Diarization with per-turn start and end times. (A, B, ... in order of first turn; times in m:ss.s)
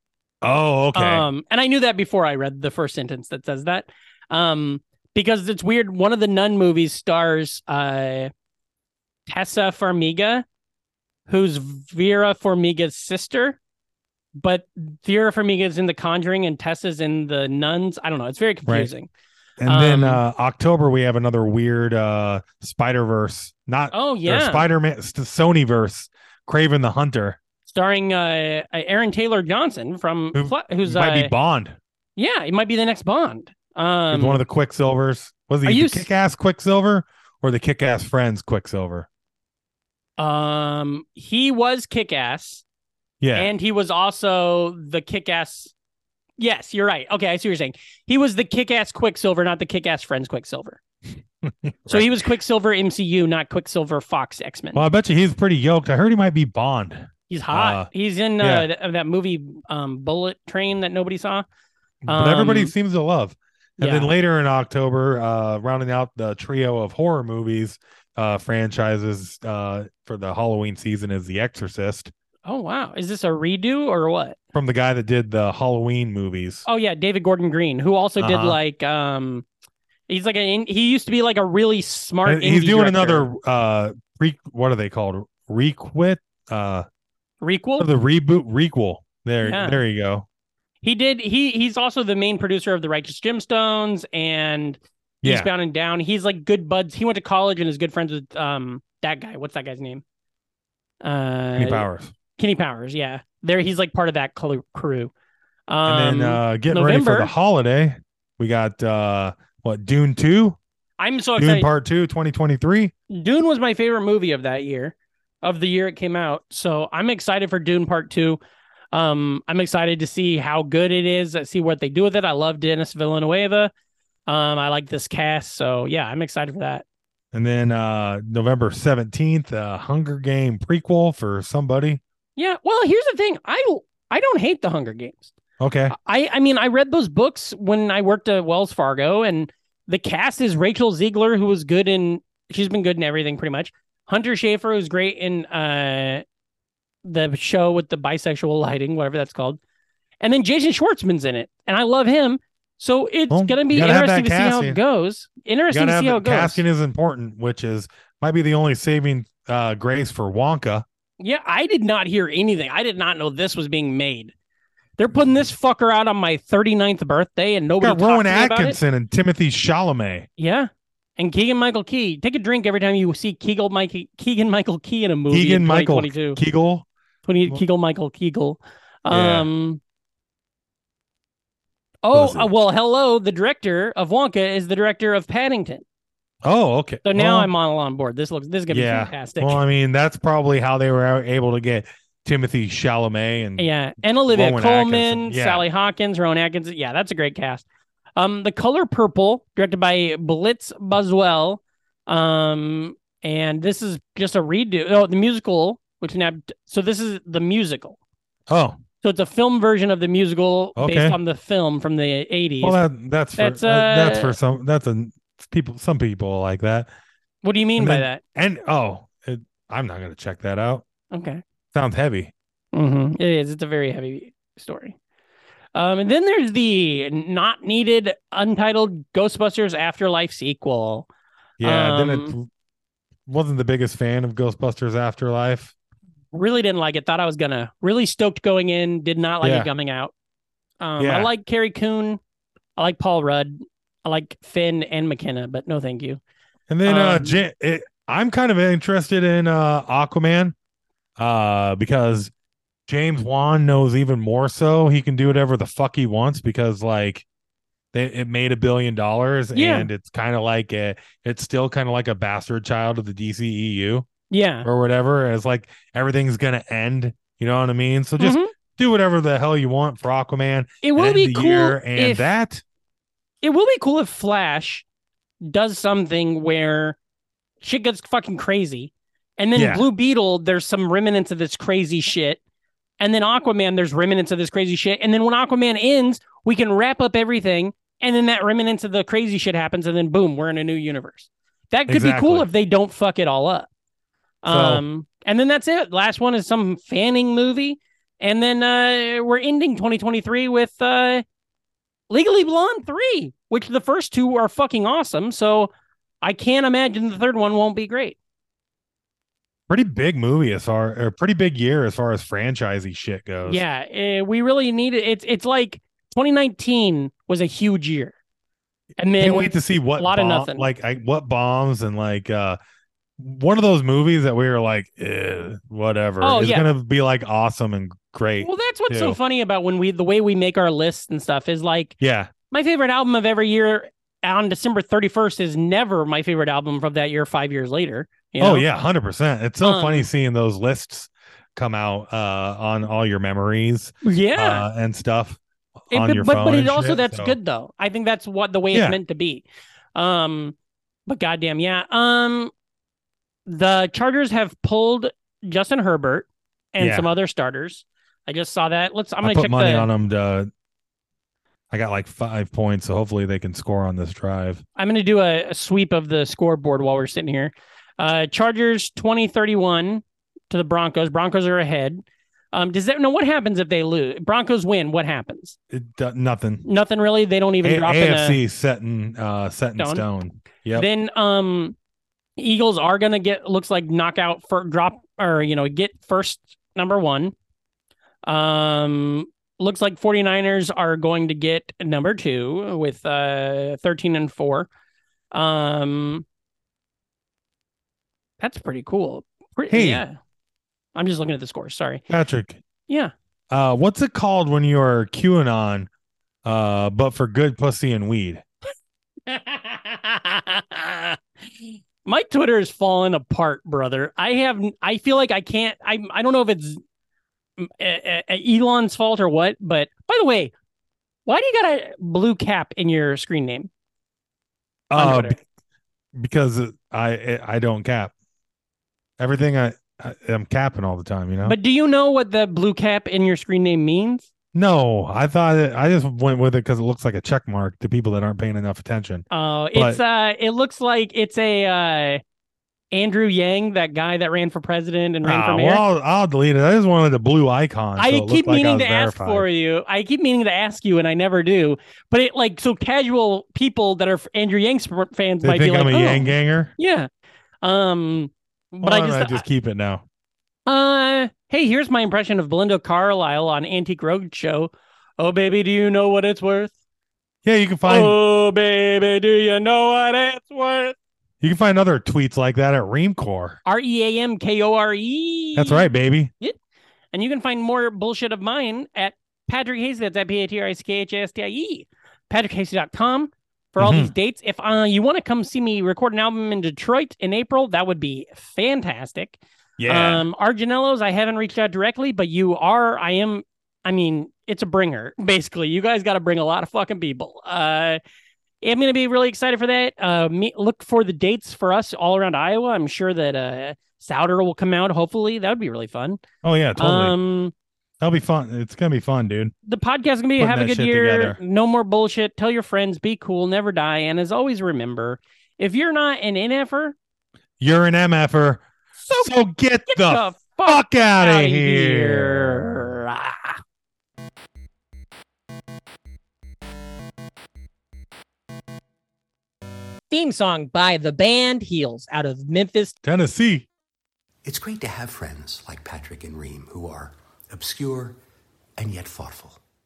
0:00.4-0:01.2 A
0:00.9-0:08.3 B
0:09.3-0:10.4 B
0:11.3-0:13.6 B
0:14.4-0:19.1 B
0:19.6-0:27.4 A
0:19.7-0:20.2 B
0:23.9-0:24.6 B
0:27.7-0:31.3 B
0:30.3-0:31.8 A
0:32.2-0:34.4 B
0:34.1-0:39.1 A
0:35.6-0:36.1 B
0:40.2-0:42.6 B
0:43.2-0:43.5 A
0:43.3-0:45.7 B
0:46.4-0:50.8 B
0:51.4-0:52.1 A
0:51.9-0:54.8 B
0:54.7-0:57.9 A
0:57.3-1:01.4 B
0:58.4-0:58.7 A
1:02.0-1:12.1 A
1:02.1-1:02.7 B
1:03.8-1:04.1 B
1:12.4-1:14.4 B
1:14.6-1:16.6 A
1:16.6-1:19.4 B
1:18.2-1:18.6 A
1:20.1-1:23.3 B
1:22.2-1:26.8 A
1:27.4-1:27.9 B
1:27.8-1:30.2 A
1:29.4-1:29.8 B
1:30.8-1:40.0 B
1:35.2-1:35.5 A
1:41.0-1:41.8 B
1:41.6-1:42.1 A
1:42.4-1:45.1 B
1:45.7-1:47.3 B
1:45.8-1:50.6 A
1:51.0-1:51.7 B
1:51.4-1:52.9 A
1:53.1-1:58.4 B
1:58.9-2:03.7 B
2:04.3-2:06.8 B
2:07.3-2:12.0 A
2:12.4-2:15.3 B
2:15.6-2:15.9 A
2:15.9-2:26.2 B
2:27.0-2:29.6 B
2:30.2-2:36.6 B
2:33.3-2:34.8 A
2:35.7-2:40.8 A
2:41.2-2:44.3 B
2:45.0-2:48.8 B
2:47.8-2:50.3 A
2:50.4-2:56.4 B
2:55.3-2:56.9 A
2:57.2-2:59.8 B
2:59.1-2:59.5 A
3:02.0-3:05.8 B
3:02.1-3:02.5 A
3:06.4-3:07.5 A
3:07.0-3:09.6 B
3:08.7-3:13.6 A
3:13.6-3:17.6 B
3:14.3-3:15.6 A
3:18.2-3:28.0 B
3:28.5-3:28.8 A
3:29.0-3:32.8 B
3:30.8-3:31.2 A
3:32.6-3:36.9 A
3:33.4-3:34.4 B
3:37.4-3:38.2 B
3:37.8-3:40.8 A
3:41.1-3:41.4 B
3:41.7-3:42.3 A
3:42.7-3:45.0 B
3:45.7-3:51.1 B
3:51.6-3:52.5 A
3:51.6-3:52.3 B
3:53.3-3:55.7 A
3:56.3-4:00.1 B
3:59.4-3:59.7 A
4:00.8-4:02.2 B
4:01.0-4:01.3 A
4:02.8-4:06.2 B
4:06.7-4:10.6 A
4:06.8-4:07.4 B
4:11.2-4:12.3 A
4:12.9-4:17.2 A
4:17.9-4:24.1 A
4:19.5-4:19.9 B
4:24.3-4:24.7 B
4:24.6-4:32.6 A
4:28.2-4:28.5 B
4:30.8-4:32.3 B
4:33.4-4:34.8 B
4:35.4-4:37.0 B
4:37.6-4:42.4 B
4:39.6-4:39.8 A
4:43.0-4:53.7 B
4:51.9-4:52.5 A
4:54.4-5:01.2 B
4:54.5-4:54.8 A
5:02.1-5:05.7 B
5:06.2-5:08.2 B
5:09.7-5:13.6 A
5:13.4-5:18.2 B
5:19.0-5:20.7 B
5:19.2-5:22.6 A
5:23.2-5:29.2 A
5:26.2-5:26.7 B
5:28.4-5:31.9 B
5:32.0-5:32.3 A
5:32.5-5:38.6 B
5:38.4-5:45.4 A
5:39.6-5:40.1 B
5:44.0-5:44.6 B
5:45.9-5:47.4 A
5:45.9-5:52.5 B
5:48.7-5:49.0 A
5:53.4-5:59.9 B
5:56.8-5:57.1 A
5:59.2-6:00.5 A
6:01.7-6:04.6 A
6:04.8-6:15.6 B
6:15.7-6:16.6 A
6:16.6-6:18.4 B
6:17.6-6:20.9 A
6:19.8-6:20.0 B
6:20.7-6:21.8 B
6:22.4-6:27.3 B
6:28.2-6:34.7 B
6:35.3-6:36.2 B
6:38.4-6:40.2 B
6:39.7-6:40.0 A
6:40.9-6:42.0 B
6:42.1-6:42.6 A
6:43.5-6:45.9 A
6:46.4-6:48.4 A
6:49.3-6:56.8 B
6:57.6-7:00.5 B
7:01.2-7:03.7 B
7:04.9-7:05.4 A
7:04.9-7:05.4 B
7:06.1-7:08.1 A
7:09.2-7:11.6 A
7:11.4-7:14.3 B
7:14.5-7:20.0 A
7:19.3-7:22.2 B
7:22.9-7:25.8 B
7:25.2-7:29.4 A
7:28.0-7:37.1 B
7:35.4-7:36.7 A
7:37.6-7:39.4 B
7:38.8-7:40.0 A
7:40.6-7:46.7 B
7:47.4-7:48.2 A
7:47.8-7:51.0 B
7:51.4-7:53.6 A
7:53.6-7:55.9 B
7:55.6-7:56.3 A
7:57.1-8:18.0 B
8:03.8-8:04.1 A
8:09.8-8:10.2 A
8:18.6-8:26.2 B
8:26.4-8:27.1 A
8:26.8-8:27.5 B
8:28.0-8:29.5 A
8:29.6-8:37.0 B
8:30.4-8:31.4 A
8:37.6-8:38.6 A
8:39.0-8:39.3 B
8:39.1-8:42.7 A
8:39.9-8:43.6 B
8:50.1-8:52.9 B
8:53.0-8:53.7 A
8:54.4-8:58.2 C
8:58.8-8:59.6 C